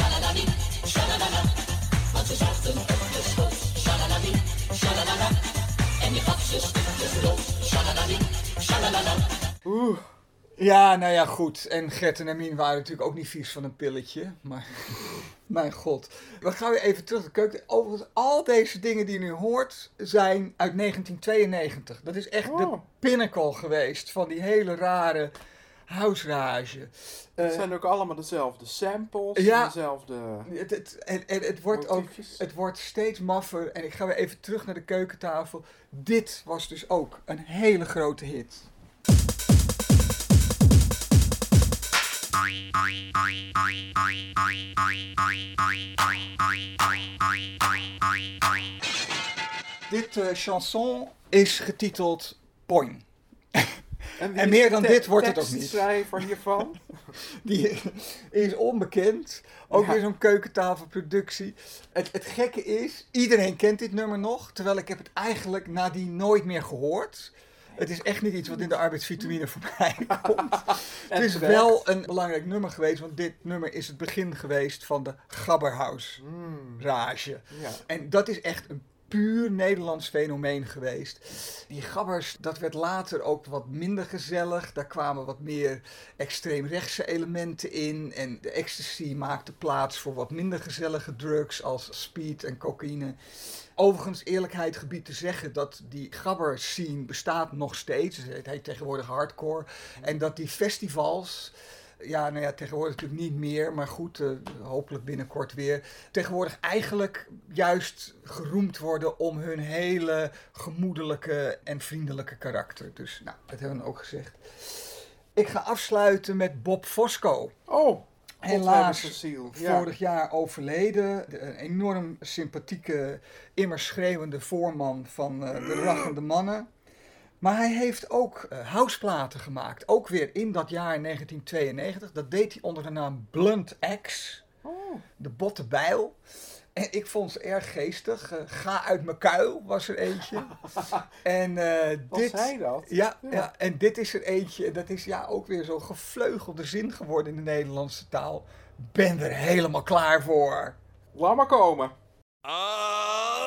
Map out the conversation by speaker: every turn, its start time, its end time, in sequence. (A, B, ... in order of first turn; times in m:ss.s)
0:09.6-0:10.0 A
0:10.6-0:15.0 B
0:15.5-0:25.3 B
0:22.4-0:22.9 A
0:25.9-0:27.7 B
0:27.4-0:30.5 A
0:29.3-0:29.8 B
0:30.4-0:38.7 B
0:31.7-0:32.4 A
0:49.9-0:53.0 B
0:54.2-0:56.8 A
0:54.2-0:56.4 B
0:57.4-1:16.2 B
0:59.7-1:00.0 A
1:10.1-1:11.9 A
1:16.2-1:16.8 A
1:16.8-1:33.2 B
1:17.5-1:17.8 A
1:33.8-1:57.5 B
1:40.0-1:40.3 A
1:57.7-1:59.9 A
1:58.4-2:06.7 B
2:07.4-2:14.4 B
2:14.6-2:15.0 A
2:15.2-2:16.2 B
2:16.8-2:20.5 B
2:21.2-2:30.8 B
2:22.1-2:23.5 A
2:31.1-2:31.9 A